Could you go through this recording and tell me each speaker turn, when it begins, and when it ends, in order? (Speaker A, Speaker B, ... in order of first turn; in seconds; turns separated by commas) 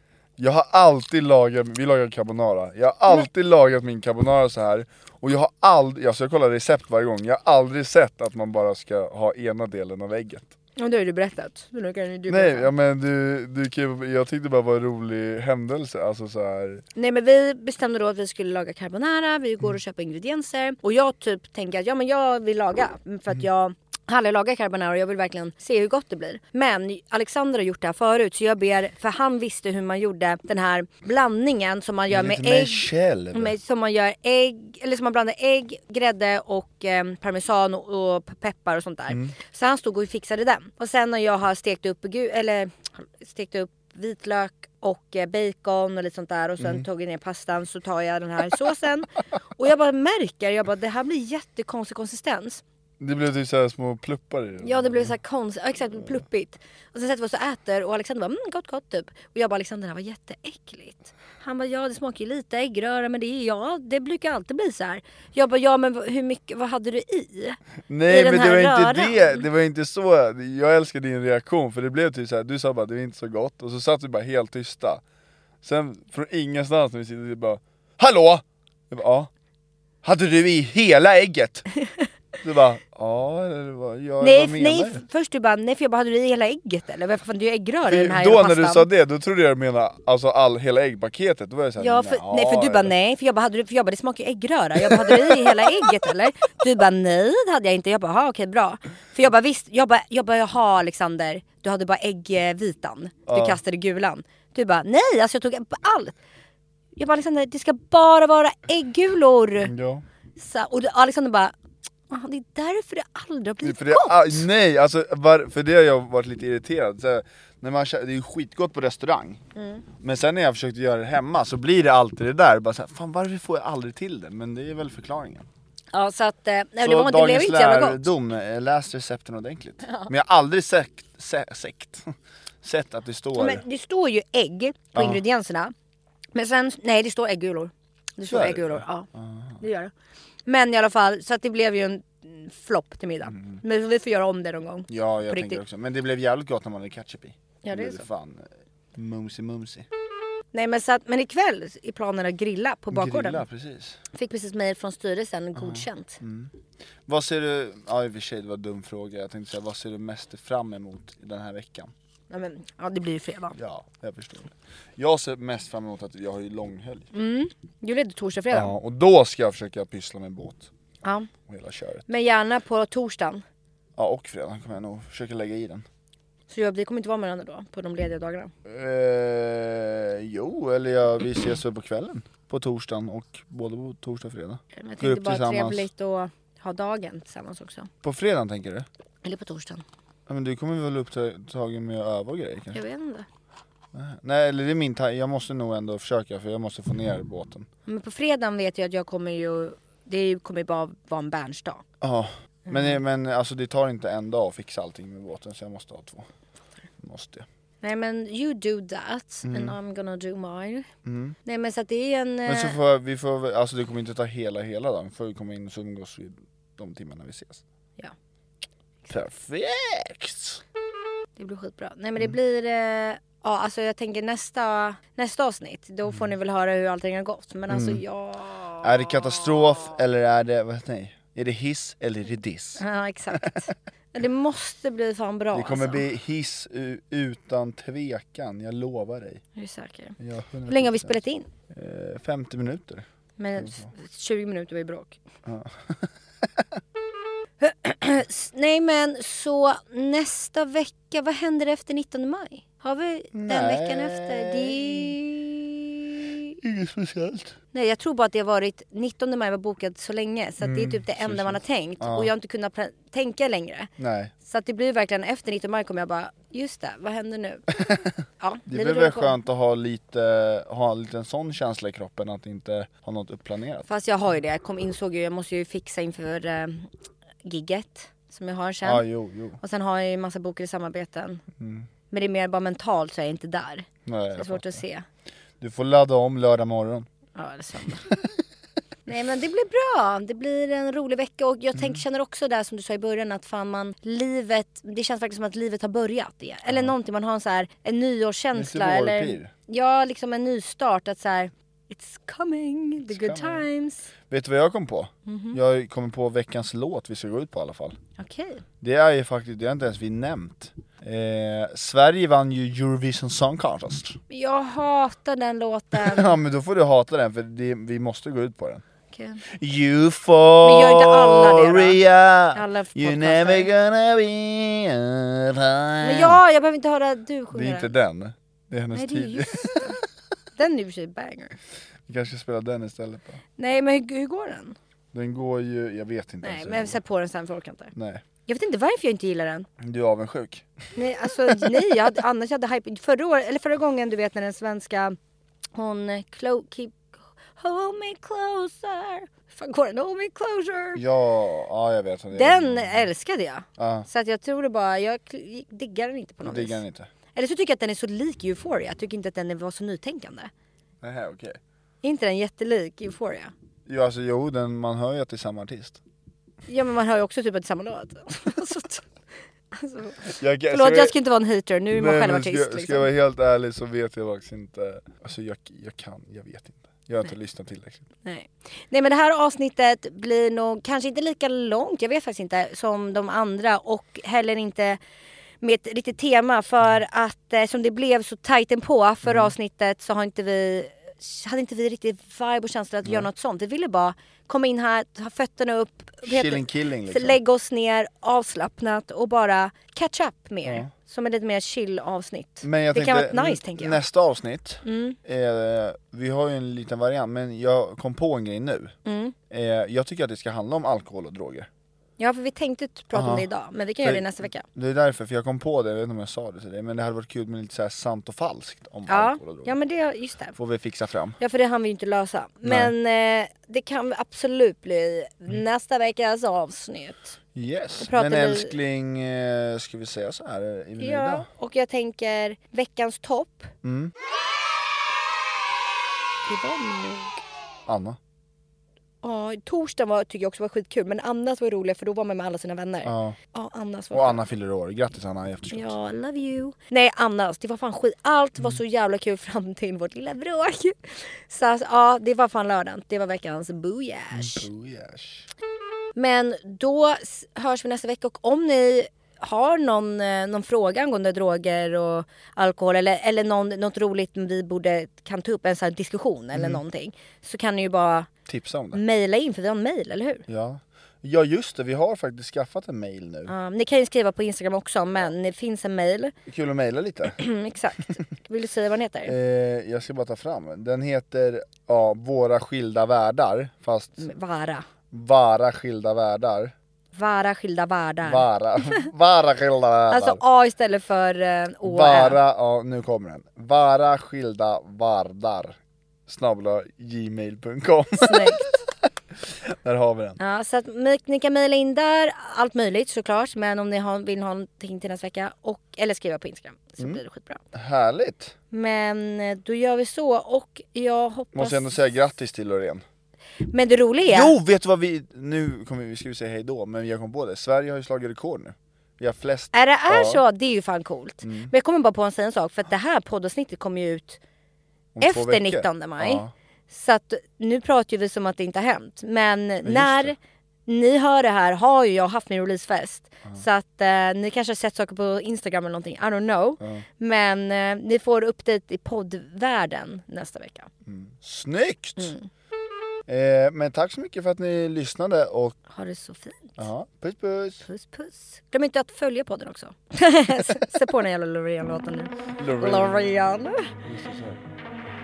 Speaker A: 0.4-10.5, Speaker B: 10.8-12.7, Speaker A: 12.3-16.8, Speaker B: 16.9-52.6, Speaker A: 32.1-33.5, Speaker A: 46.6-46.8, Speaker A: 53.0-55.1, Speaker B: 54.6-69.4, Speaker A: 67.9-75.0, Speaker A: 75.6-79.3, Speaker A: 80.0-81.7, Speaker A: 82.4-85.0, Speaker B: 84.2-88.9, Speaker A: 87.8-92.9, Speaker B: 91.8-106.2, Speaker A: 94.8-95.8, Speaker A: 103.3-103.6, Speaker B: 107.0-109.7, Speaker A: 109.6-110.0, Speaker B: 110.4-111.5, Speaker B: 112.1-114.5, Speaker A: 113.6-119.4, Speaker B: 119.5-119.8, Speaker A: 120.0-125.5, Speaker B: 125.9-128.1, Speaker A: 126.8-133.6, Speaker B: 133.4-135.7, Speaker A: 134.9-135.2, Speaker B: 136.3-139.1, Speaker A: 138.3-139.6, Speaker B: 139.6-139.9, Speaker B: 140.4-145.6, Speaker A: 143.3-143.6, Speaker A: 144.9-149.9, Speaker B: 147.6-148.0, Speaker B: 150.5-153.4, Speaker A: 152.9-154.0, Speaker B: 154.1-156.2, Speaker A: 155.5-156.5, Speaker A: 157.1-161.9, Speaker B: 162.3-163.6, Speaker A: 163.5-167.1, Speaker B: 167.1-168.7, Speaker A: 168.5-170.7, Speaker A: 171.5-172.1, Speaker B: 172.1-173.4, Speaker A: 173.9-175.8, Speaker B: 176.5-178.5, Speaker A: 178.7-185.9, Speaker B: 184.7-187.9, Speaker A: 188.0-188.8, Speaker B: 189.2-189.8, Speaker A: 190.3-192.8, Speaker B: 192.7-193.2, Speaker A: 193.9-197.7, Speaker B: 197.9-201.8, Speaker A: 202.0-206.3, Speaker A: 207.0-207.4, Speaker B: 207.8-210.9, Speaker A: 209.4-209.8, Speaker A: 211.0-211.3, Speaker B: 211.4-212.8, Speaker A: 212.4-217.6, Speaker A: 219.1-220.6, Speaker B: 221.4-229.9, Speaker A: 227.7-228.0, Speaker A: 228.8-233.6, Speaker B: 232.8-236.0, Speaker A: 235.5-239.4, Speaker B: 239.6-240.2, Speaker A: 240.2-241.2, Speaker B: 240.7-241.5, Speaker A: 241.7-243.9, Speaker B: 243.4-245.2, Speaker A: 245.4-246.6, Speaker B: 247.6-256.5, Speaker A: 253.3-255.2, Speaker A: 256.6-257.6, Speaker B: 257.7-263.9, Speaker A: 260.6-262.3, Speaker A: 264.0-264.3, Speaker B: 264.4-269.4, Speaker A: 268.7-273.9, Speaker B: 273.9-276.9, Speaker B: 277.4-279.0, Speaker A: 278.8-279.6, Speaker B: 279.6-281.4, Speaker A: 281.6-281.9, Speaker B: 282.1-285.1, Speaker A: 284.1-284.8, Speaker A: 285.6-287.1, Speaker B: 287.4-288.1, Speaker B: 289.1-304.1, Speaker A: 291.8-292.0, Speaker A: 296.7-296.9, Speaker A: 298.5-299.5, Speaker A: 303.1-303.6, Speaker A: 304.3-308.0, Speaker B: 305.2-305.6, Speaker B: 308.2-308.6, Speaker A: 308.8-314.2, Speaker B: 314.3-316.4, Speaker A: 315.9-318.8, Speaker B: 319.1-319.4, Speaker A: 319.5-326.4, Speaker B: 320.6-322.0, Speaker B: 322.5-323.7, Speaker B: 326.0-327.9, Speaker A: 327.5-329.9, Speaker B: 328.9-330.0, Speaker B: 330.6-331.5, Speaker A: 332.1-333.4, Speaker B: 333.6-334.8, Speaker A: 335.1-337.0, Speaker B: 336.4-337.9, Speaker A: 337.9-338.2, Speaker B: 338.5-339.7, Speaker A: 339.8-340.7, Speaker B: 340.9-345.1, Speaker A: 341.5-341.8, Speaker B: 345.7-351.0, Speaker A: 350.9-353.1, Speaker B: 352.3-356.8, Speaker A: 353.8-354.1, Speaker A: 356.4-357.1, Speaker B: 357.3-360.5, Speaker A: 361.0-361.6, Speaker B: 362.0-363.5, Speaker A: 363.9-366.0, Speaker B: 366.7-369.1, Speaker B: 369.7-373.1, Speaker A: 370.4-371.1, Speaker A: 371.9-378.1, Speaker B: 378.2-385.0, Speaker B: 385.6-404.0, Speaker A: 389.2-389.5, Speaker A: 396.2-397.4, Speaker A: 400.6-400.9, Speaker A: 402.6-408.9, Speaker B: 404.8-405.2, Speaker B: 409.0-409.3, Speaker A: 409.5-411.7, Speaker B: 412.2-414.6, Speaker A: 413.1-413.5, Speaker A: 414.0-419.7, Speaker B: 419.1-420.6, Speaker A: 420.6-421.4, Speaker B: 421.4-427.4, Speaker A: 422.6-422.9, Speaker A: 427.5-431.5, Speaker B: 428.0-428.7, Speaker B: 431.0-433.7, Speaker A: 433.8-434.1, Speaker B: 436.4-437.4, Speaker A: 437.9-438.2, Speaker B: 439.2-444.4, Speaker A: 443.0-443.4, Speaker A: 444.1-445.9, Speaker B: 445.7-454.7, Speaker A: 454.3-455.5, Speaker B: 456.1-468.3, Speaker A: 466.5-466.8, Speaker A: 468.5-469.0, Speaker B: 468.9-470.4, Speaker A: 470.5-473.5, Speaker B: 473.5-476.3, Speaker A: 476.4-477.4, Speaker B: 477.4-479.3, Speaker A: 479.2-484.3, Speaker B: 484.2-484.9, Speaker A: 485.1-486.7, Speaker B: 487.1-489.1, Speaker A: 488.2-490.4, Speaker B: 490.1-492.4, Speaker A: 491.8-498.7, Speaker B: 498.2-498.8, Speaker A: 499.4-500.4, Speaker B: 500.4-507.6, Speaker A: 507.7-508.5, Speaker B: 508.7-511.9, Speaker A: 511.5-513.0, Speaker B: 513.6-514.5, Speaker A: 514.2-520.4, Speaker B: 519.7-524.4, Speaker A: 521.4-521.7, Speaker A: 525.1-526.5, Speaker B: 525.2-530.4, Speaker A: 529.8-530.3, Speaker B: 530.9-540.9, Speaker A: 536.8-537.0, Speaker A: 541.0-542.3, Speaker B: 542.2-542.5, Speaker A: 543.3-545.8, Speaker B: 545.9-546.8, Speaker A: 546.8-547.9, Speaker B: 547.8-553.9, Speaker A: 552.6-553.3, Speaker A: 554.0-554.6